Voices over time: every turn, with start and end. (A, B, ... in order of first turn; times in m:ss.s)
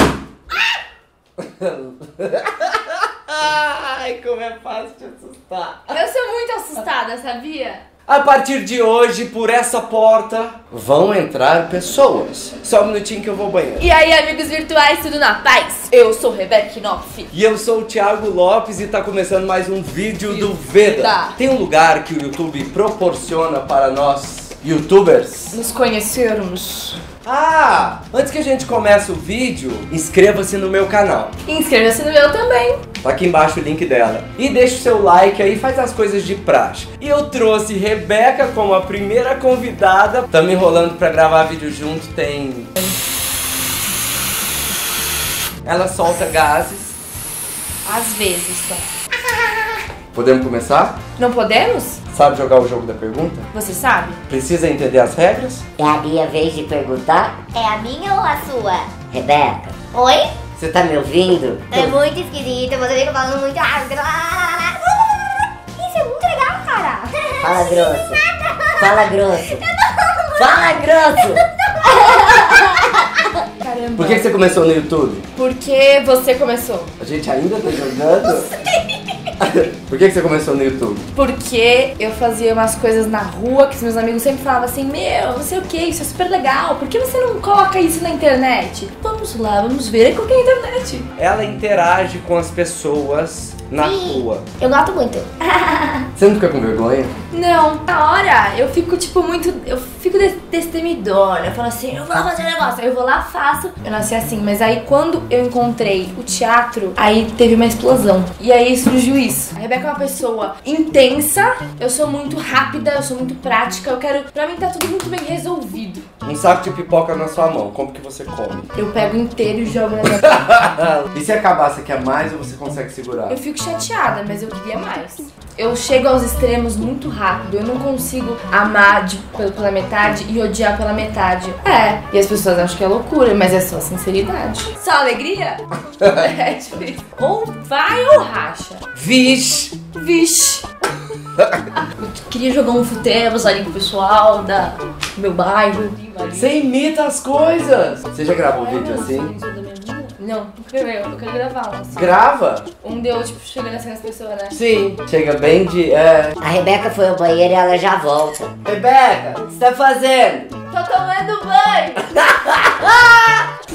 0:01.4-0:06.0 A
0:05.9-0:07.8 B
0:08.1-0:13.9 A
0:13.8-0:17.3 B
0:17.3-0:25.6 A
0:20.2-0:21.4 B
0:25.5-0:27.0 B
0:27.2-0:31.3 A
0:31.5-0:32.8 B
0:33.0-0:42.7 A
0:45.6-0:47.0 A
0:47.8-0:48.9 B
0:50.1-0:51.0 A
0:51.2-0:52.0 B
0:52.1-0:53.5 A
0:53.5-0:54.2 B
0:54.3-0:55.6 A
0:55.8-0:57.4 C
0:57.5-0:59.0 D
0:59.1-0:59.8 C
0:59.9-1:00.3 D
1:00.6-1:02.0 C
1:01.7-1:05.4 D
1:05.8-1:07.2 B
1:07.2-1:12.9 D
1:07.4-1:08.2 C
1:08.8-1:09.7 C
1:10.4-1:11.4 C
1:11.9-1:12.9 B
1:13.6-1:14.3 B
1:14.0-1:15.2 A
1:15.4-1:16.9 B
1:17.0-1:18.5 A
1:17.7-1:19.3 B
1:19.4-1:21.0 A
1:21.2-1:31.1 B
1:31.2-1:34.4 A
1:33.8-1:36.0 D
1:36.2-1:37.2 A
1:37.3-1:56.1 B
1:56.2-1:58.7 A
1:58.8-2:00.5 B
2:00.0-2:03.4 A
2:03.3-2:18.9 B
2:16.0-2:16.3 A
2:18.9-2:19.8 A
2:19.9-2:20.7 B
2:21.8-2:26.6 B
2:26.3-2:29.3 A
2:28.4-2:32.3 B
2:31.9-2:32.7 A
2:32.8-2:34.6 B
2:34.5-2:36.4 A
2:36.4-2:38.5 C
2:38.6-2:40.5 A
2:40.7-2:42.1 B
2:42.0-2:43.4 A